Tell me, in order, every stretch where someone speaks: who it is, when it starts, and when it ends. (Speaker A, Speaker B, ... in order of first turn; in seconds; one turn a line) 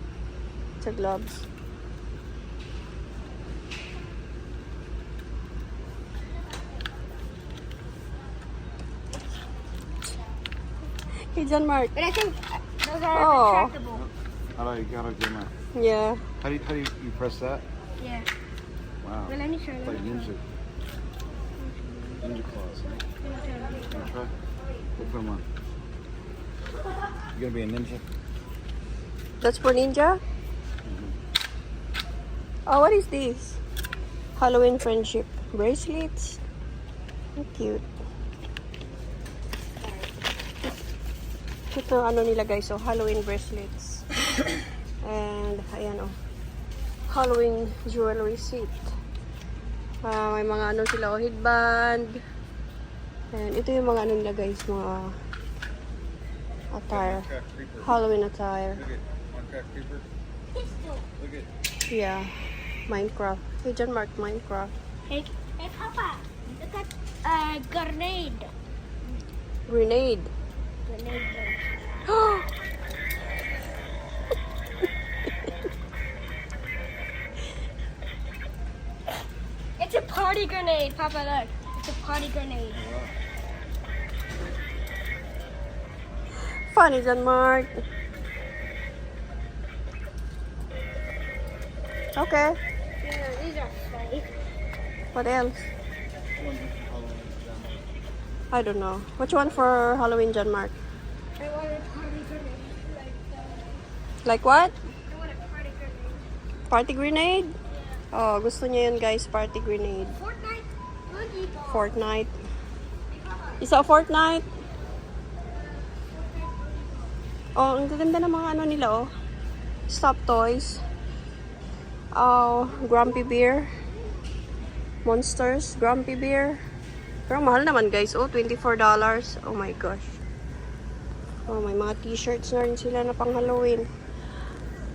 Speaker A: 0.8-1.4
Speaker A: 11.3-11.9
Speaker B: 11.9-14.1
Speaker A: 13.1-13.8
Speaker C: 13.9-15.5
Speaker A: 15.8-16.2
Speaker C: 16.4-17.6
Speaker B: 18.0-18.3
Speaker C: 19.0-20.4
Speaker B: 19.3-20.3
Speaker B: 21.6-22.2
Speaker C: 22.2-23.0
Speaker B: 23.2-23.9
Speaker C: 23.9-24.3
Speaker C: 25.0-25.5
Speaker C: 27.3-28.1
Speaker A: 29.4-30.2
Speaker C: 30.9-31.2
Speaker A: 32.7-33.6
Speaker A: 34.4-36.4
Speaker A: 37.4-37.9
Speaker A: 41.7-44.1
Speaker A: 45.0-46.1
Speaker A: 47.1-48.9
Speaker A: 50.0-52.1
Speaker A: 53.3-55.1
Speaker A: 56.7-57.3
Speaker C: 56.9-58.0
Speaker A: 57.8-58.8
Speaker C: 58.8-60.0
Speaker B: 60.5-61.1
Speaker C: 61.2-61.5
Speaker A: 61.9-62.3
Speaker A: 62.9-64.7
Speaker B: 65.1-68.5
Speaker A: 69.7-70.3
Speaker B: 70.9-71.7
Speaker A: 72.1-72.5
Speaker B: 79.8-82.8
Speaker C: 82.8-83.1
Speaker A: 86.7-87.7
Speaker A: 92.2-92.6
Speaker B: 93.0-94.3
Speaker A: 95.1-95.7
Speaker C: 96.4-97.8
Speaker A: 98.5-100.8
Speaker B: 101.4-103.8
Speaker A: 104.2-104.8
Speaker B: 105.1-106.2
Speaker A: 106.7-107.5
Speaker A: 108.1-110.2
Speaker B: 110.2-111.9
Speaker A: 111.7-112.3
Speaker A: 113.6-114.5
Speaker B: 116.3-117.1
Speaker A: 117.6-119.1
Speaker A: 119.9-120.8
Speaker A: 122.1-123.7
Speaker A: 125.0-126.6
Speaker A: 127.3-130.2
Speaker A: 131.5-133.8